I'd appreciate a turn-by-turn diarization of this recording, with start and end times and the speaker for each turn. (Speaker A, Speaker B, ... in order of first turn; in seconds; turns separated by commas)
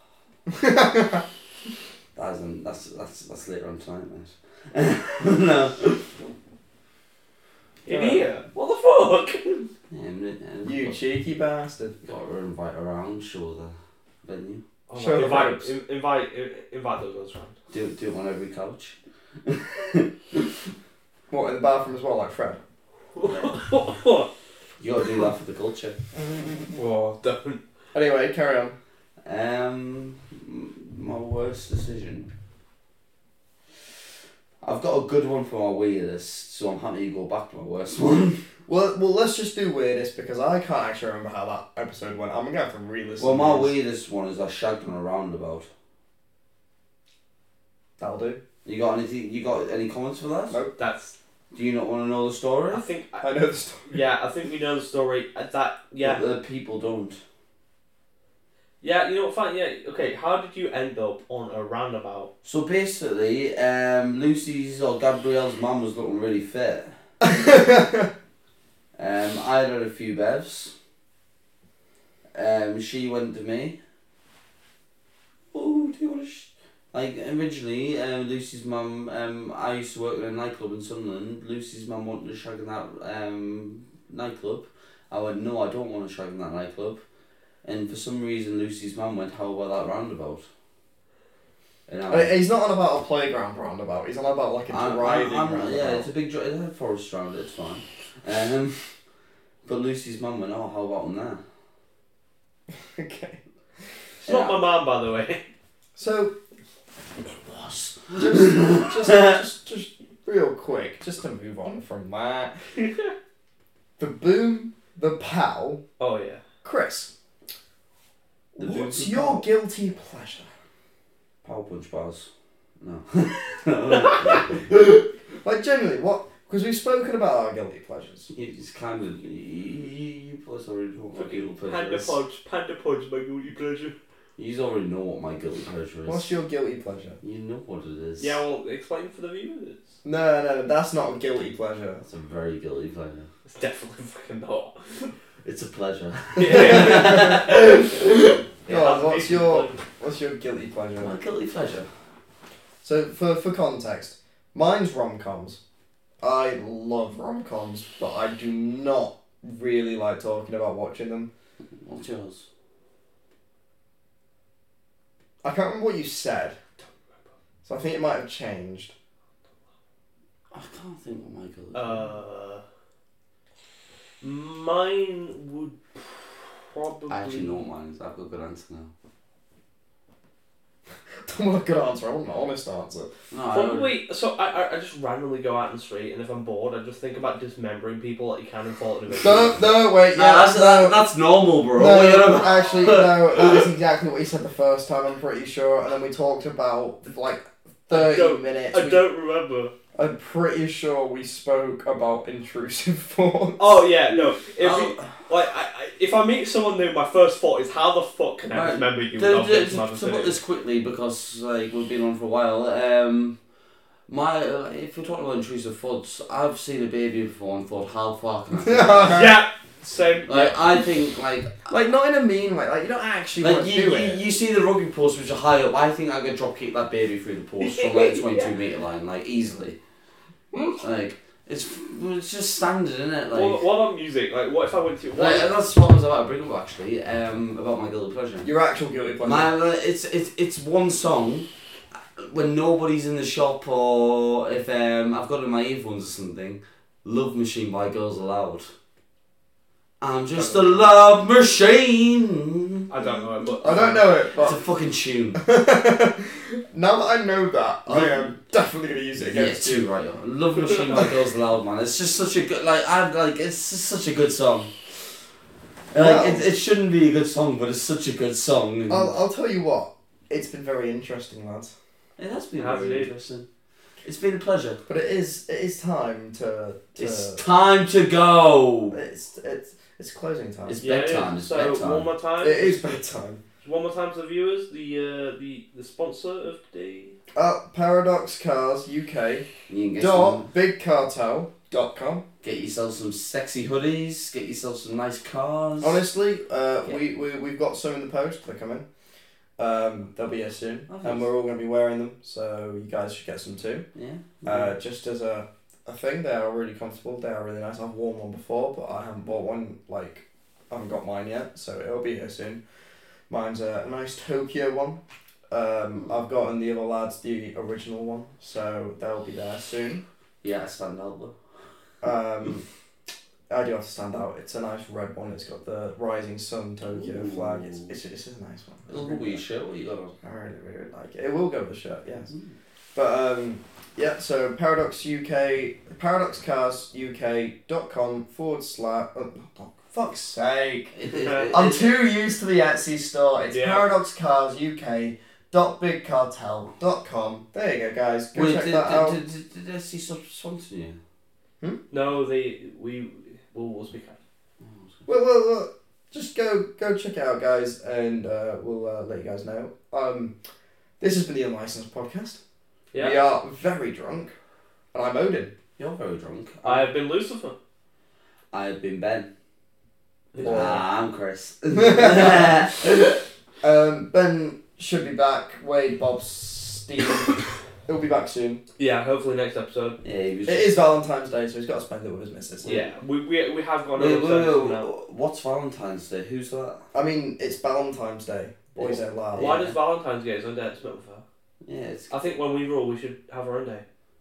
Speaker A: 0.5-1.2, Speaker B: 2.1-6.1, Speaker A: 7.8-8.3, Speaker C: 7.8-9.7, Speaker B: 9.9-11.0, Speaker A: 10.6-11.9, Speaker B: 12.0-14.6, Speaker C: 14.9-17.5, Speaker A: 14.9-15.7, Speaker B: 17.7-20.5, Speaker A: 21.3-22.6, Speaker C: 23.1-24.3, Speaker B: 23.3-23.5, Speaker B: 24.8-26.0, Speaker C: 26.7-27.6, Speaker A: 27.9-28.8, Speaker B: 29.2-32.3, Speaker B: 34.6-38.4, Speaker A: 38.7-43.7, Speaker B: 43.2-45.7, Speaker A: 48.0-48.4, Speaker B: 48.6-50.6, Speaker C: 50.8-51.1, Speaker B: 51.5-52.8, Speaker C: 52.7-53.3, Speaker A: 53.2-54.0, Speaker C: 53.9-56.2, Speaker B: 56.0-57.2, Speaker C: 58.8-62.3, Speaker B: 62.4-66.9, Speaker A: 67.2-68.1, Speaker B: 69.0-70.7, Speaker B: 72.3-73.8, Speaker B: 75.5-87.0, Speaker B: 87.6-90.5, Speaker B: 91.9-92.4, Speaker A: 92.1-96.1, Speaker B: 94.7-98.9, Speaker B: 99.6-101.4, Speaker A: 102.7-103.4, Speaker C: 104.2-105.5, Speaker B: 104.2-104.6, Speaker A: 106.0-106.3, Speaker B: 107.4-109.4, Speaker A: 108.1-112.5, Speaker C: 112.8-113.1, Speaker A: 114.0-115.8, Speaker C: 116.0-116.4, Speaker A: 116.6-117.1, Speaker A: 118.5-120.5, Speaker B: 118.6-119.5, Speaker B: 121.4-122.3, Speaker B: 122.8-124.7, Speaker C: 123.9-124.4, Speaker A: 124.7-128.3, Speaker B: 128.3-132.2, Speaker C: 131.1-133.9, Speaker B: 134.4-136.3, Speaker A: 136.1-137.2, Speaker B: 137.2-138.4, Speaker C: 138.2-139.9, Speaker A: 140.0-142.0, Speaker B: 142.1-143.3, Speaker C: 143.5-145.1, Speaker B: 145.4-147.6, Speaker C: 146.3-147.4, Speaker A: 146.5-151.2, Speaker C: 148.7-149.8, Speaker B: 151.0-151.9, Speaker A: 152.8-155.6, Speaker A: 156.2-161.3, Speaker B: 161.8-162.4, Speaker A: 165.4-166.6, Speaker A: 167.6-168.9, Speaker B: 170.5-172.1, Speaker C: 171.7-172.6, Speaker C: 174.2-177.6, Speaker B: 177.1-178.9, Speaker A: 181.2-183.1, Speaker B: 183.3-183.9, Speaker C: 183.5-189.6, Speaker A: 189.2-191.0, Speaker B: 190.1-193.7, Speaker A: 191.7-199.1, Speaker C: 197.9-199.7, Speaker A: 199.9-203.8, Speaker C: 203.6-210.3, Speaker B: 204.6-205.2, Speaker B: 208.5-213.4, Speaker B: 214.1-219.3, Speaker A: 218.6-219.3, Speaker C: 219.1-220.7, Speaker B: 220.3-221.7, Speaker A: 221.7-224.2, Speaker B: 223.4-229.8, Speaker C: 227.6-228.6, Speaker B: 230.7-233.6, Speaker C: 233.3-235.5, Speaker B: 235.2-238.5, Speaker A: 238.4-239.5, Speaker B: 239.2-241.5, Speaker B: 242.2-248.7, Speaker B: 250.0-252.9, Speaker C: 252.9-254.2, Speaker A: 253.6-254.6, Speaker B: 253.6-255.4, Speaker A: 255.4-259.9, Speaker B: 257.9-258.3, Speaker B: 259.1-264.8, Speaker B: 265.9-269.1, Speaker A: 265.9-266.5, Speaker A: 268.9-271.7, Speaker B: 272.2-273.5, Speaker C: 272.6-273.2, Speaker B: 274.0-274.8, Speaker A: 274.9-277.4, Speaker B: 277.0-279.0, Speaker A: 278.9-280.9, Speaker B: 280.7-282.1, Speaker C: 280.8-282.8, Speaker A: 282.4-283.4, Speaker C: 283.6-287.2, Speaker A: 287.3-292.2, Speaker B: 289.7-290.5, Speaker B: 292.4-296.0, Speaker A: 295.8-298.9, Speaker A: 299.6-303.9, Speaker B: 300.9-301.3, Speaker B: 303.9-304.8, Speaker A: 304.4-312.6, Speaker A: 313.3-320.0, Speaker B: 320.4-321.3, Speaker A: 322.0-322.6, Speaker A: 323.5-329.4, Speaker B: 326.9-328.0, Speaker B: 328.9-330.1, Speaker A: 330.2-332.3, Speaker A: 332.9-349.2, Speaker B: 340.9-341.9, Speaker C: 343.5-343.9, Speaker B: 348.3-351.0, Speaker C: 351.9-354.2, Speaker B: 354.6-355.0, Speaker A: 355.1-360.3, Speaker A: 361.0-362.4, Speaker A: 362.9-364.3, Speaker A: 364.9-365.5, Speaker B: 365.8-366.9, Speaker C: 366.6-367.5, Speaker B: 368.5-369.3, Speaker C: 370.3-370.8, Speaker A: 370.4-370.8, Speaker B: 370.4-373.1, Speaker A: 371.7-377.3, Speaker A: 377.9-378.6, Speaker C: 378.8-380.0, Speaker B: 380.0-380.7, Speaker A: 380.4-382.9, Speaker C: 382.6-384.9, Speaker B: 383.9-386.8, Speaker A: 386.9-389.6, Speaker C: 388.8-391.2, Speaker B: 389.3-389.8, Speaker B: 391.6-392.1, Speaker C: 392.1-393.8